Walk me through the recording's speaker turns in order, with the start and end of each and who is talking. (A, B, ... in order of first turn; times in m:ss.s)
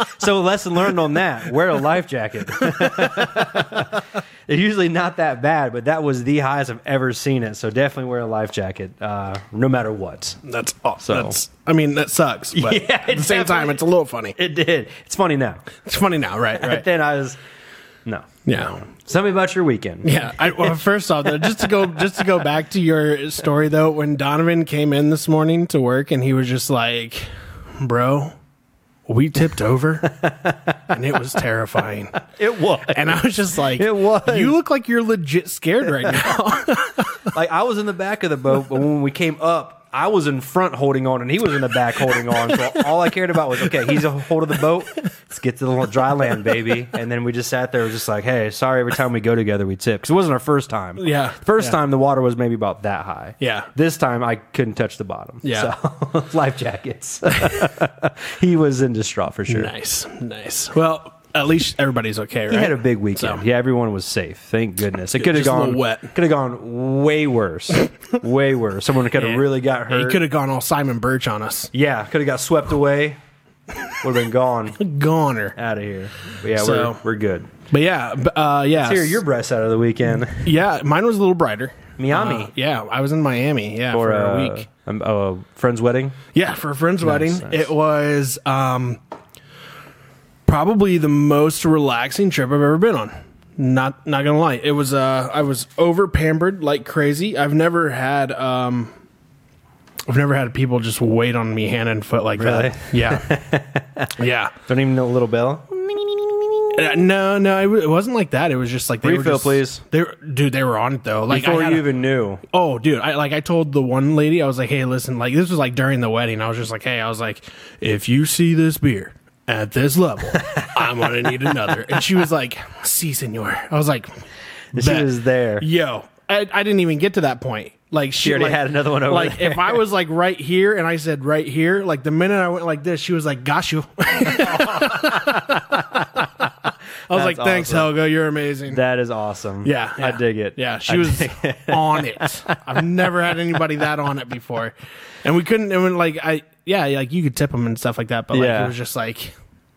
0:00.1-0:10.4 A
0:02.6-0:03.3 B
0:10.4-0:14.4 B
0:11.0-0:11.4 A
0:12.5-0:13.8 A
0:14.3-0:15.7 A
0:15.8-0:16.9 B
0:16.6-0:17.4 A
0:18.0-0:20.8 A
0:18.4-0:18.8 B
0:20.0-0:28.4 B
0:21.4-0:22.2 A
0:29.1-0:30.2 B
0:30.1-0:30.8 A
0:30.9-0:32.2 B
0:32.3-0:34.6 A
0:32.9-0:37.2 B
0:36.0-0:36.4 A
0:37.3-0:59.7 A
0:51.0-0:51.7 B
0:53.4-0:53.7 B
0:55.4-0:55.7 B
0:59.5-1:03.4 B
1:02.5-1:10.2 A
1:05.2-1:06.1 B
1:09.1-1:11.7 B
1:11.7-1:13.2 A
1:14.0-1:14.8 A
1:14.8-1:15.6 B
1:15.6-1:17.5 A
1:16.5-1:17.0 B
1:17.7-1:19.2 B
1:18.7-1:20.5 A
1:20.3-1:24.6 B
1:22.0-1:22.5 A
1:23.9-1:26.2 A
1:26.3-1:29.0 B
1:27.0-1:27.7 A
1:30.4-1:38.9 B
1:40.1-1:43.3 B
1:42.4-1:46.8 A
1:44.2-1:44.5 B
1:46.7-1:51.9 B
1:49.0-1:49.8 A
1:51.3-1:52.4 A
1:52.5-2:16.0 B
2:00.4-2:01.5 A
2:04.7-2:05.7 A
2:08.2-2:09.8 A
2:14.2-2:16.5 A
2:17.1-2:18.8 B
2:17.1-2:18.0 A
2:18.7-2:22.8 A
2:19.6-2:29.3 B
2:28.3-2:28.7 A